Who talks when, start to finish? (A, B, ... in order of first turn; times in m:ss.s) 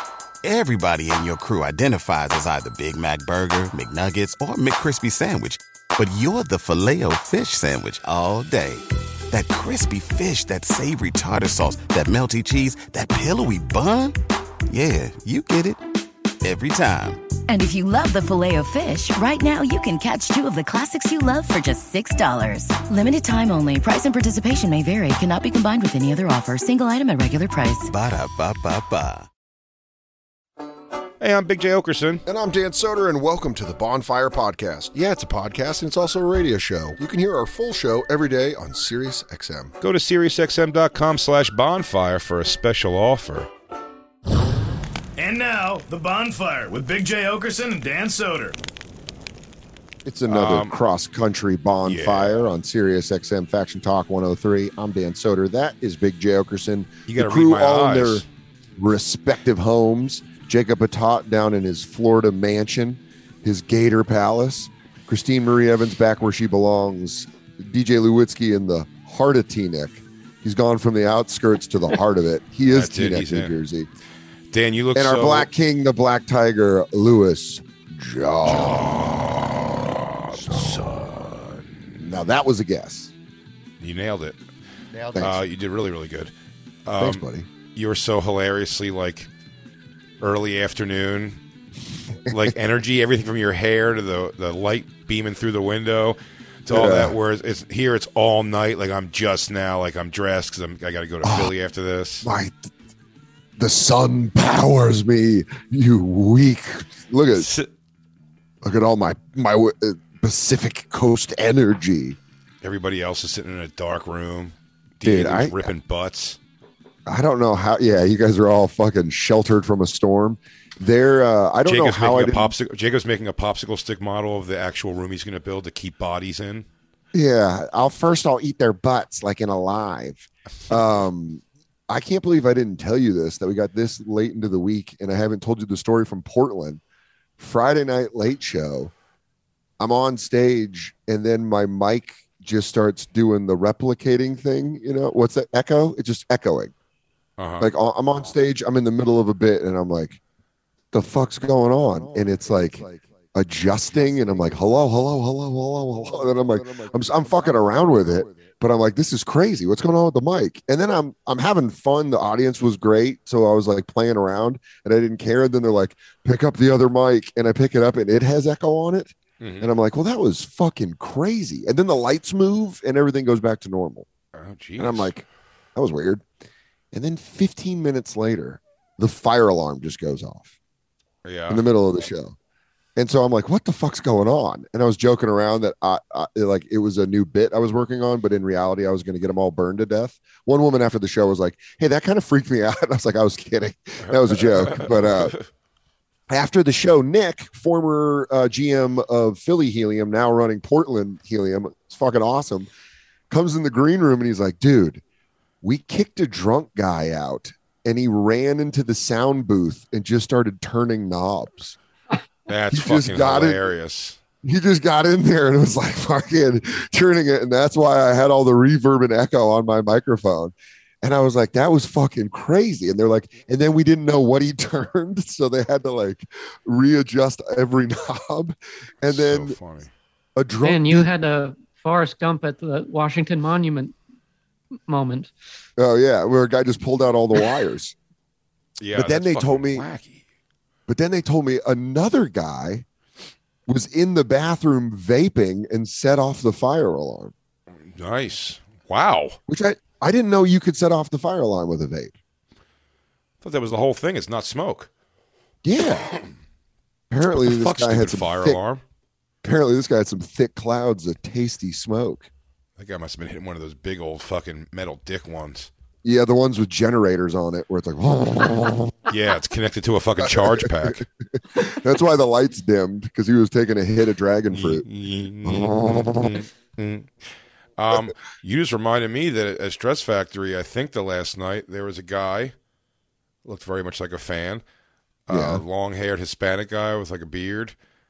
0:00.4-0:14.2 A
0:14.7-0:15.8 A
0:16.4-0:17.2 A
0:17.5-0:27.9 B
0:27.8-0:29.3 A
0:31.2-0:32.2 C
0:32.3-0:39.7 D
0:39.8-0:43.5 C
0:45.2-0:48.6 E
0:50.0-0:58.2 D
0:50.3-0:50.7 C
0:51.8-0:52.4 C
0:57.1-0:58.3 C
0:58.8-1:13.9 D
1:12.7-1:13.6 C
1:14.5-1:15.5 C
1:15.0-1:19.5 D
1:18.5-1:22.2 C
1:20.3-1:20.9 D
1:22.0-1:23.1 D
1:23.8-1:24.4 C
1:25.0-1:25.4 D
1:25.1-1:26.3 C
1:26.9-1:29.3 C
1:27.0-1:27.5 D
1:30.2-1:31.4 C
1:32.3-1:32.5 D
1:32.3-1:42.3 C
1:36.7-1:37.2 D
1:41.2-1:41.5 D
1:42.2-1:42.7 D
1:43.6-1:47.5 D
1:47.3-1:47.7 C
1:48.6-1:52.2 D
1:52.6-1:56.4 C
1:55.0-1:55.7 D
1:57.1-2:02.5 D
2:01.6-2:06.7 C
2:07.1-2:16.8 D
2:10.7-2:10.9 C
2:17.4-2:18.9 D
2:19.8-2:26.7 D
2:27.4-2:27.7 C
2:27.6-2:30.2 D
2:30.9-2:54.1 D
2:49.4-2:49.7 C
2:54.4-2:55.1 C
2:54.8-2:56.2 D
2:56.9-3:00.6 D
3:01.2-3:01.6 C
3:01.5-3:02.4 D
3:03.0-3:15.4 D
3:14.1-3:15.4 C
3:16.3-3:22.7 D
3:23.3-3:25.0 D
3:25.6-3:31.8 D
3:32.5-3:34.2 C
3:32.7-3:33.6 D
3:34.4-3:49.6 D
3:49.0-3:49.9 C
3:50.4-3:51.1 D
3:50.6-3:54.0 F
3:54.9-3:55.3 F
3:55.8-3:58.0 D
3:58.8-4:00.2 C
3:59.0-3:59.9 D
4:00.9-4:02.8 D
4:03.7-4:07.3 D
4:07.9-4:09.4 C
4:09.5-4:12.2 D
4:13.4-4:14.9 C
4:15.6-4:16.1 D
4:17.1-4:18.6 D
4:17.3-4:18.8 C
4:19.4-4:22.3 D
4:22.8-4:25.7 C
4:26.0-4:29.1 D
4:29.1-4:31.0 C
4:30.2-4:31.0 D
4:31.5-4:34.8 D
4:34.5-4:37.1 C
4:35.4-4:36.4 D
4:37.8-4:42.5 C
4:43.4-4:44.6 C
4:45.3-4:47.8 C
4:45.3-4:45.6 D